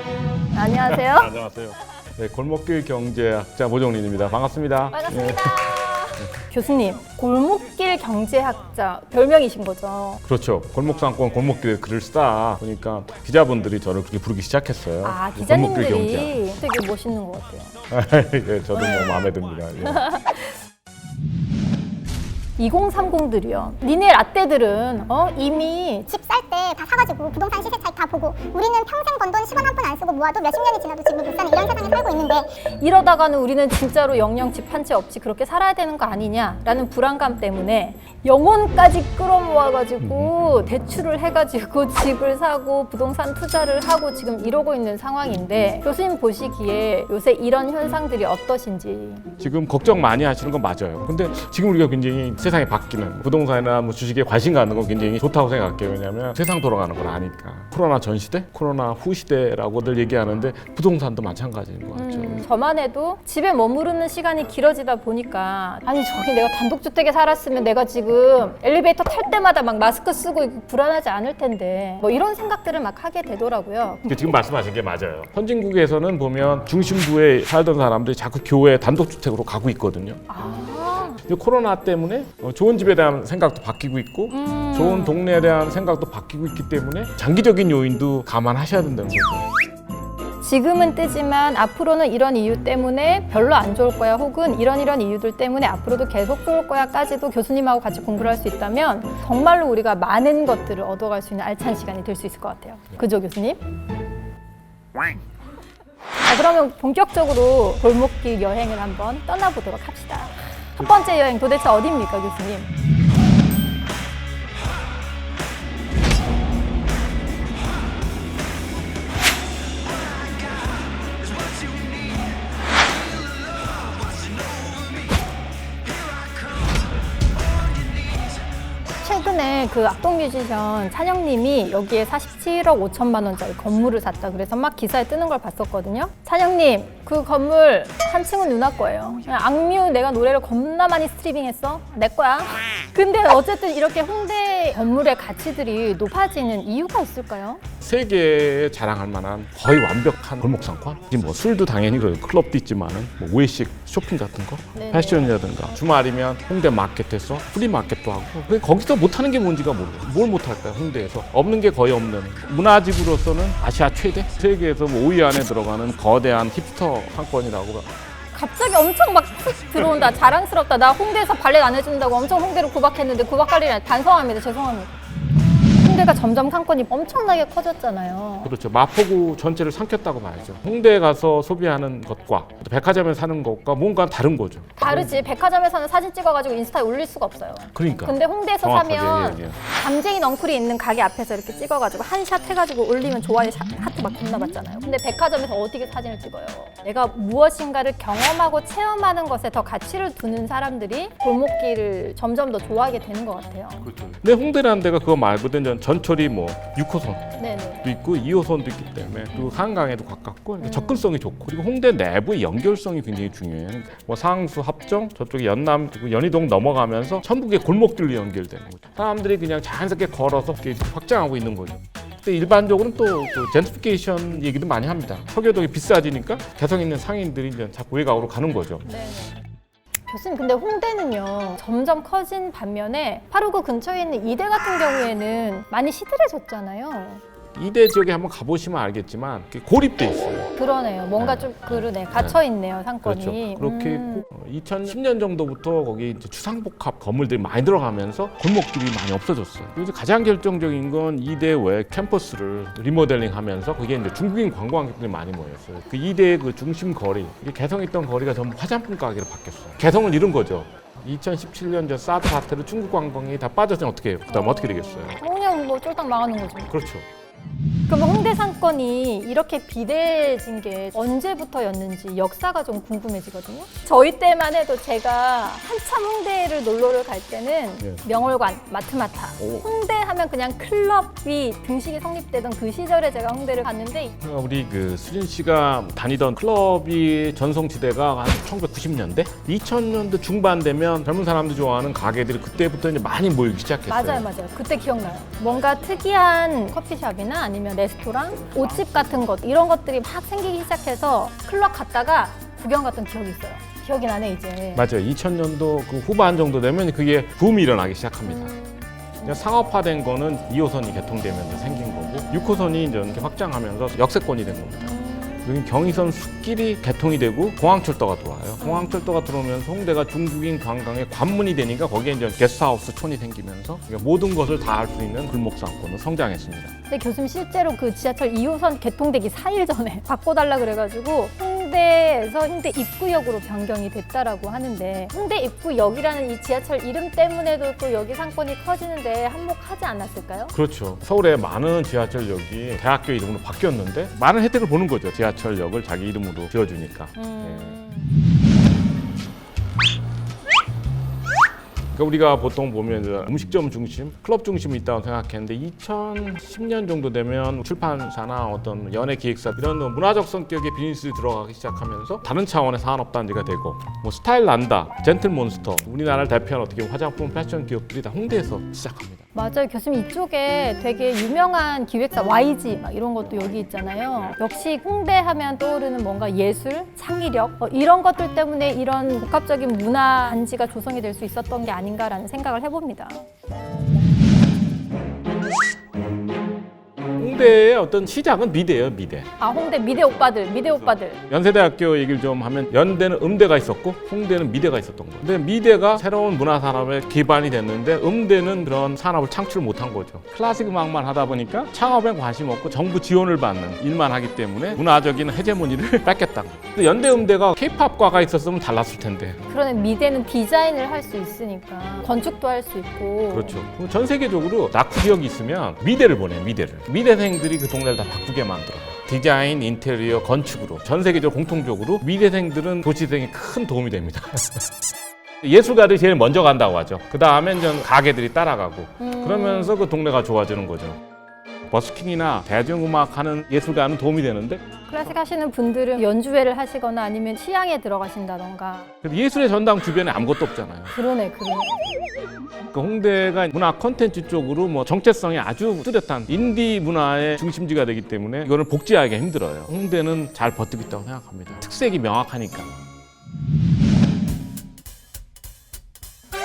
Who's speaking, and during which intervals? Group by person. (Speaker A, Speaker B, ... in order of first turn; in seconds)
Speaker A: 0.5-1.3, 4.9-10.2, 15.0-17.7, 18.7-19.3, 19.8-20.5, 22.6-26.1, 32.6-49.2, 61.9-74.2, 80.3-81.2, 84.3-85.2, 90.4-103.6, 106.2-112.7, 129.0-147.6, 154.7-155.4, 168.3-174.9, 175.7-178.5, 184.8-203.8, 207.4-207.8, 210.6-211.0, 228.8-229.3, 230.1-237.2, 240.6-244.2, 264.3-266.7, 267.9-284.2, 293.9-304.9, 308.3-309.3, 314.8-315.5, 318.6-318.9, 326.9-340.5, 347.1-348.1, 369.3-383.2, 389.4-391.2, 409.5-413.6, 429.0-429.8, 434.9-438.9, 440.9-441.7
Speaker B: 0.8-6.3, 10.2-16.5, 17.9-20.1, 40.0-40.3, 49.4-62.5, 74.1-80.2, 81.2-89.5, 147.8-167.9, 178.4-185.3, 187.7-189.6, 203.8-207.3, 207.8-228.8, 237.5-240.5, 241.2-242.4, 243.0-265.2, 266.7-267.1, 277.8-278.1, 279.4-279.7, 284.2-294.2, 304.7-308.5, 309.2-326.7, 340.5-347.8, 351.9-369.2, 387.2-409.4, 413.3-424.7, 425.4-431.0, 431.7-435.1, 439.0-440.9, 442.7-452.7
Speaker C: 26.1-32.5